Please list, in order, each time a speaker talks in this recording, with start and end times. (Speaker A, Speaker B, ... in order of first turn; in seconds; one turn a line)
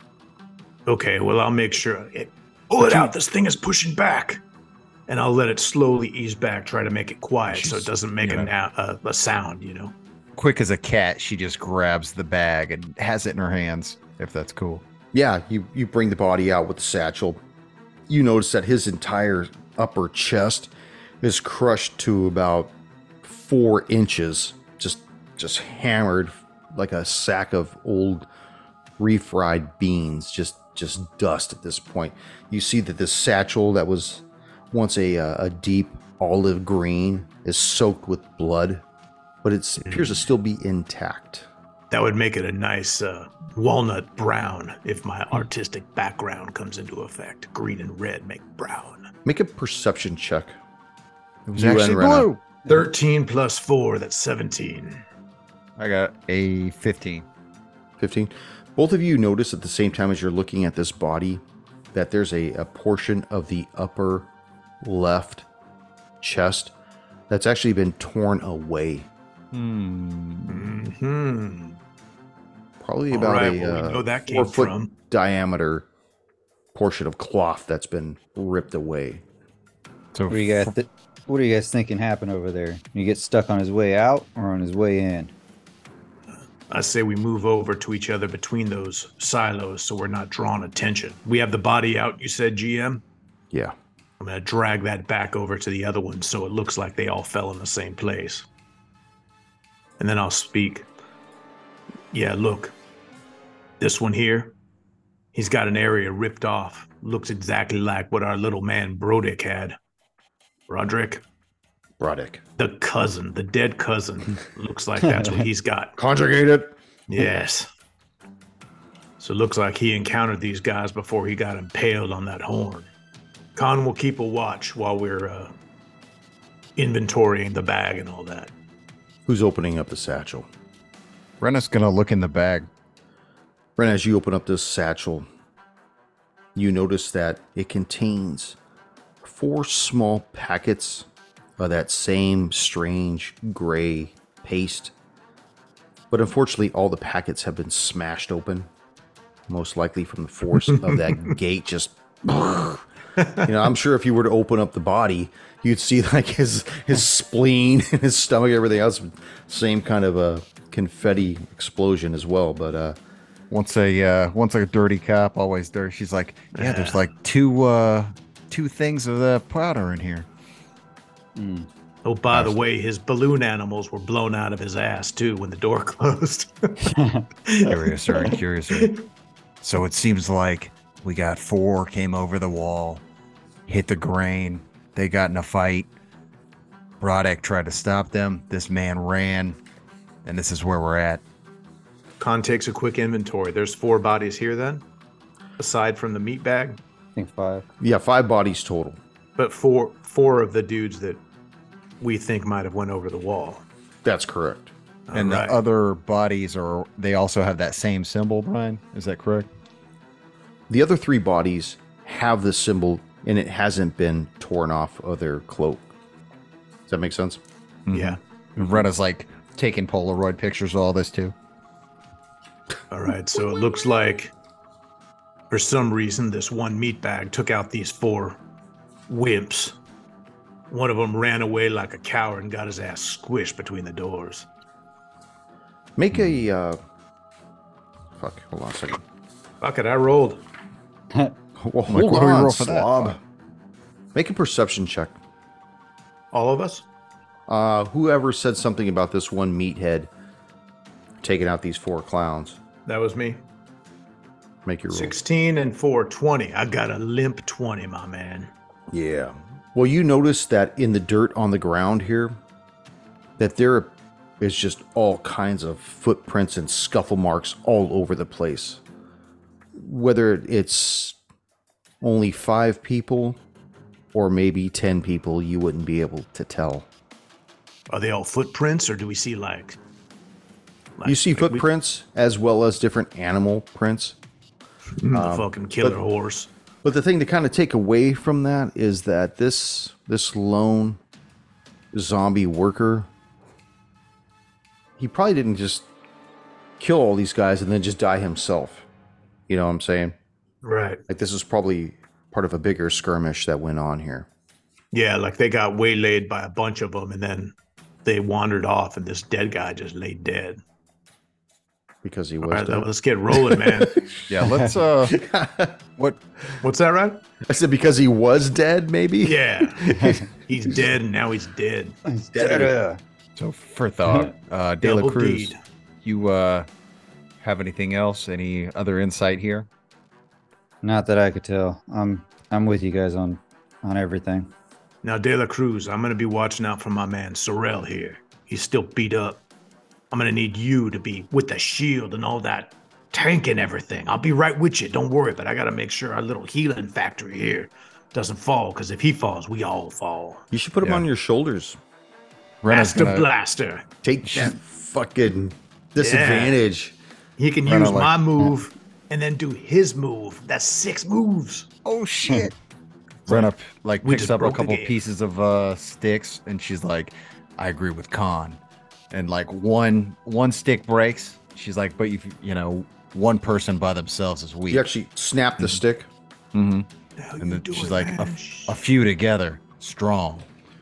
Speaker A: 0.9-4.4
Speaker B: 2.8-3.1
Speaker A: 5.1-9.9
Speaker B: 7.5-8.5
Speaker B: 10.3-14.8
Speaker C: 15.1-17.4
Speaker C: 18.1-28.3
Speaker C: 29.0-38.8
Speaker C: 39.4-41.5
Speaker A: 41.9-49.0
Speaker C: 49.2-50.5
Speaker B: 51.5-52.4
Speaker C: 51.5-52.3
Speaker A: 52.7-55.0
Speaker B: 55.8-57.3
Speaker C: 58.0-61.4
Speaker C: 61.9-64.3
Speaker C: 64.8-65.5
Speaker C: 66.2-66.7
Speaker C: 67.3-69.1
Speaker B: 69.5-70.7
Speaker A: 70.5-71.8
Speaker C: 72.8-75.9
Speaker A: 73.1-74.9
Speaker C: 76.7-79.2
Speaker B: 80.1-80.7
Speaker D: 80.3-85.3
Speaker A: 86.7-93.0
Speaker A: 94.2-98.5
Speaker A: 100.0-100.9
Speaker A: 102.1-102.8
Speaker A: 103.8-104.5
Speaker A: 105.3-109.8
Speaker A: 110.7-111.2
Speaker C: 112.0-112.4
Speaker A: 112.6-116.0
Speaker C: 116.0-116.8
Speaker A: 117.1-117.7
Speaker A: 119.2-122.9
Speaker A: 123.6-125.5
Speaker A: 126.8-128.5
Speaker C: 129.3-130.5
Speaker B: 131.4-132.7
Speaker C: 133.8-135.3
Speaker C: 136.6-138.6
Speaker C: 139.2-141.1
Speaker C: 141.6-144.9
Speaker C: 146.1-148.7
Speaker C: 149.5-163.0
Speaker B: 163.5-170.3
Speaker A: 166.6-167.0
Speaker D: 171.4-171.7
Speaker A: 172.1-176.8
Speaker D: 176.8-177.3
Speaker A: 177.5-179.0
Speaker B: 177.6-178.9
Speaker B: 179.6-183.0
Speaker B: 183.7-185.9
Speaker B: 187.0-189.6
Speaker B: 190.2-191.2
Speaker A: 192.2-194.8
Speaker A: 195.6-196.8
Speaker D: 197.2-197.7
Speaker C: 197.8-199.0
Speaker A: 199.4-201.2
Speaker A: 202.0-203.6
Speaker C: 204.1-204.7
Speaker A: 205.1-205.6
Speaker B: 205.1-209.5
Speaker C: 210.7-215.9
Speaker C: 216.9-217.4
Speaker B: 217.9-221.3
Speaker A: 217.9-218.7
Speaker A: 222.9-224.3
Speaker A: 225.5-228.4
Speaker A: 229.1-229.8
Speaker A: 230.7-234.5
Speaker C: 236.0-236.8
Speaker C: 238.2-239.0
Speaker A: 239.6-240.4
Speaker C: 241.6-243.2
Speaker B: 241.9-243.2
Speaker C: 244.1-245.2
Speaker A: 246.3-246.8
Speaker C: 247.5-250.1
Speaker C: 251.2-252.6
Speaker A: 252.9-253.4
Speaker C: 254.7-255.2
Speaker A: 254.9-258.5
Speaker C: 258.9-262.4
Speaker C: 263.4-268.8
Speaker C: 269.8-271.2
Speaker C: 272.0-273.4
Speaker C: 274.1-276.9
Speaker A: 277.9-279.8
Speaker A: 281.0-281.6
Speaker C: 281.1-284.2
Speaker A: 285.0-286.5
Speaker C: 285.1-286.0
Speaker C: 286.8-291.0
Speaker C: 291.9-293.1
Speaker C: 295.0-295.9
Speaker C: 296.8-298.9
Speaker C: 299.5-300.1
Speaker A: 300.6-301.0
Speaker C: 301.1-304.3
Speaker A: 304.9-307.5
Speaker A: 308.1-310.6
Speaker C: 312.0-314.4
Speaker A: 312.4-314.0
Speaker B: 314.3-315.2
Speaker C: 315.0-315.8
Speaker A: 316.6-317.2
Speaker C: 317.4-320.2
Speaker A: 319.2-322.0
Speaker D: 322.1-323.0
Speaker C: 322.3-322.7
Speaker B: 323.4-326.7
Speaker A: 324.8-325.6
Speaker B: 327.4-329.7
Speaker D: 330.8-334.5
Speaker A: 335.0-339.4
Speaker A: 340.1-350.4
Speaker C: 350.5-351.8
Speaker B: 352.6-353.3
Speaker A: 352.7-353.9
Speaker C: 354.0-357.0
Speaker A: 356.0-356.6
Speaker A: 357.4-361.7
Speaker B: 357.7-358.1
Speaker B: 361.9-362.5
Speaker A: 363.3-363.5
Speaker B: 363.3-368.6
Speaker A: 364.0-364.9
Speaker B: 369.1-374.9
Speaker C: 374.7-376.1
Speaker B: 376.5-376.9
Speaker A: 377.2-378.8
Speaker B: 377.4-380.5